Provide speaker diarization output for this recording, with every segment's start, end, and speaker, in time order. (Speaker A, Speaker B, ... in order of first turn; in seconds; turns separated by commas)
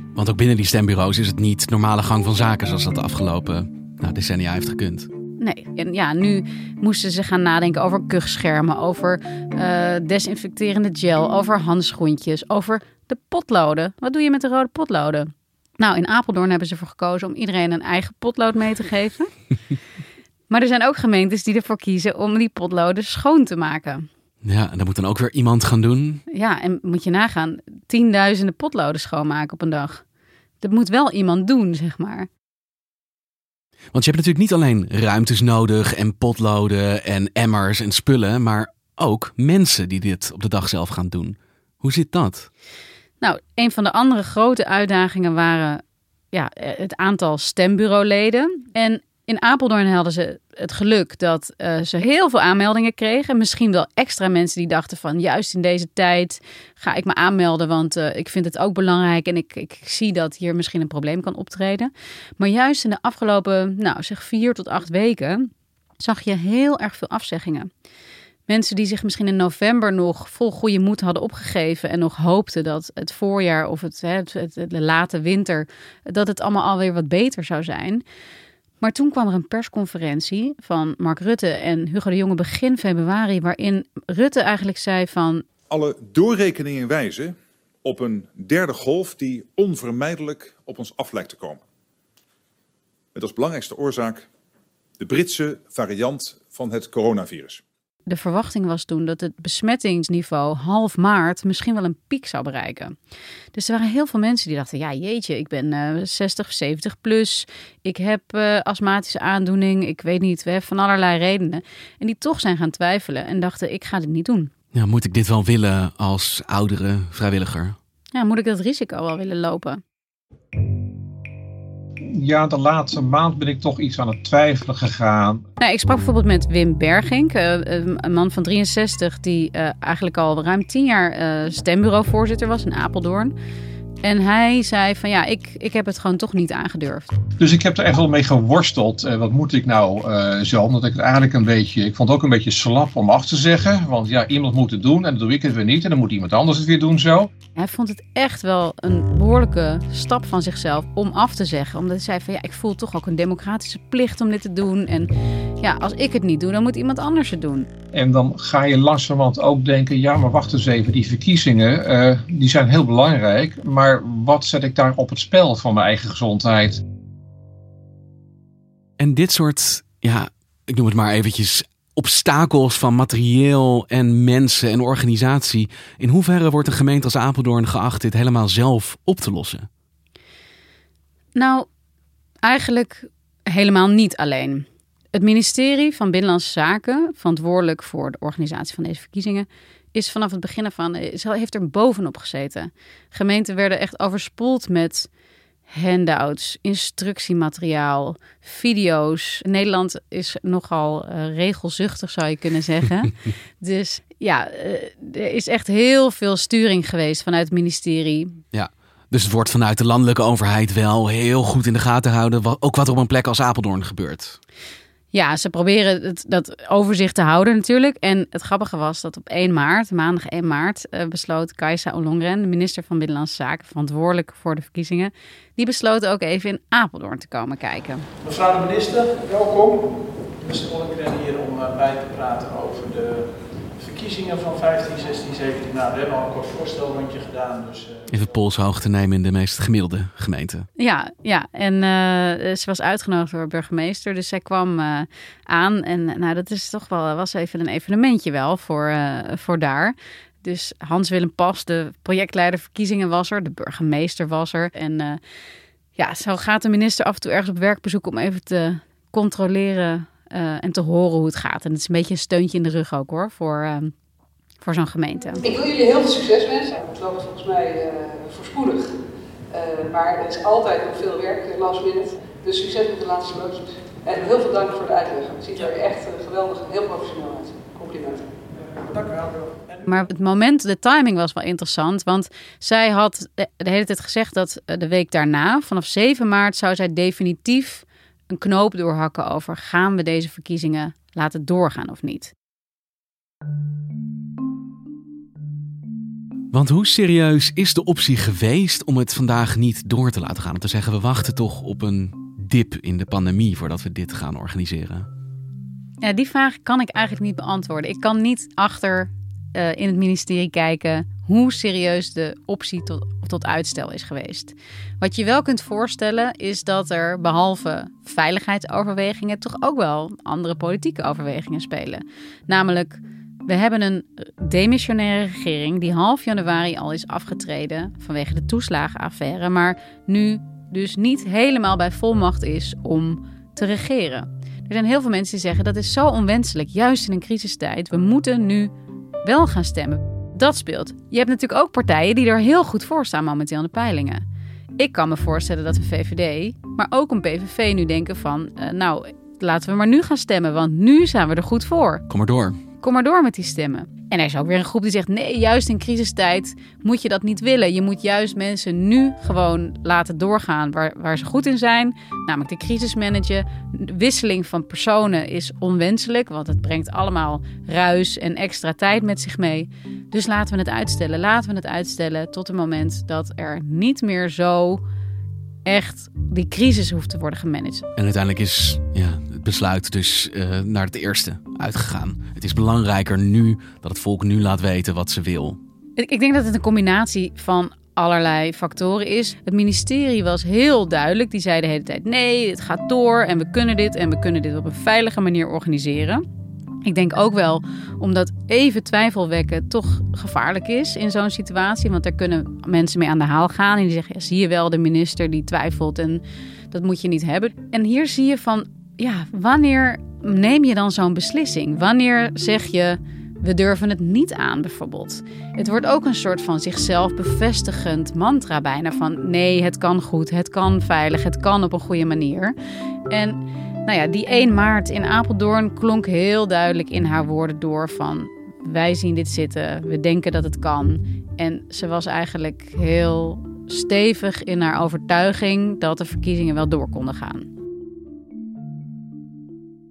Speaker A: 0.1-5.1, Speaker B: 5.4-19.3, Speaker B: 20.5-24.1, Speaker A: 24.4-26.2, Speaker B: 26.3-30.0, Speaker B: 30.6-32.3, Speaker A: 33.9-42.5, Speaker B: 43.2-67.7, Speaker B: 68.5-78.0, Speaker B: 78.8-85.4, Speaker C: 85.7-91.6, Speaker C: 93.1-94.2, Speaker C: 95.0-97.6, Speaker B: 98.1-103.0, Speaker B: 103.5-114.5, Speaker A: 114.7-117.8, Speaker B: 118.1-119.8, Speaker D: 122.2-125.4, Speaker B: 125.6-133.3, Speaker B: 134.0-137.1, Speaker D: 137.4-147.3, Speaker B: 147.6-157.7, Speaker D: 157.9-166.8, Speaker A: 169.0-179.7, Speaker B: 181.3-181.7, Speaker B: 182.4-195.1, Speaker B: 195.7-208.4, Speaker A: 208.5-214.4, Speaker B: 215.1-228.1, Speaker E: 228.2-233.3, Speaker E: 233.8-238.1, Speaker A: 238.1-240.7, Speaker B: 240.8-255.2, Speaker B: 255.9-263.9, Speaker B: 264.6-265.4, Speaker F: 265.4-268.9, Speaker F: 269.5-278.2, Speaker B: 279.8-292.3, Speaker A: 296.5-305.1, Speaker B: 306.0-338.7, Speaker B: 339.2-344.2, Speaker B: 344.8-352.0, Speaker A: 352.1-352.6, Speaker B: 352.8-374.8, Speaker B: 375.6-377.9, Speaker A: 377.9-385.6, Speaker B: 386.0-396.2, Speaker B: 396.8-422.5, Speaker B: 423.1-437.5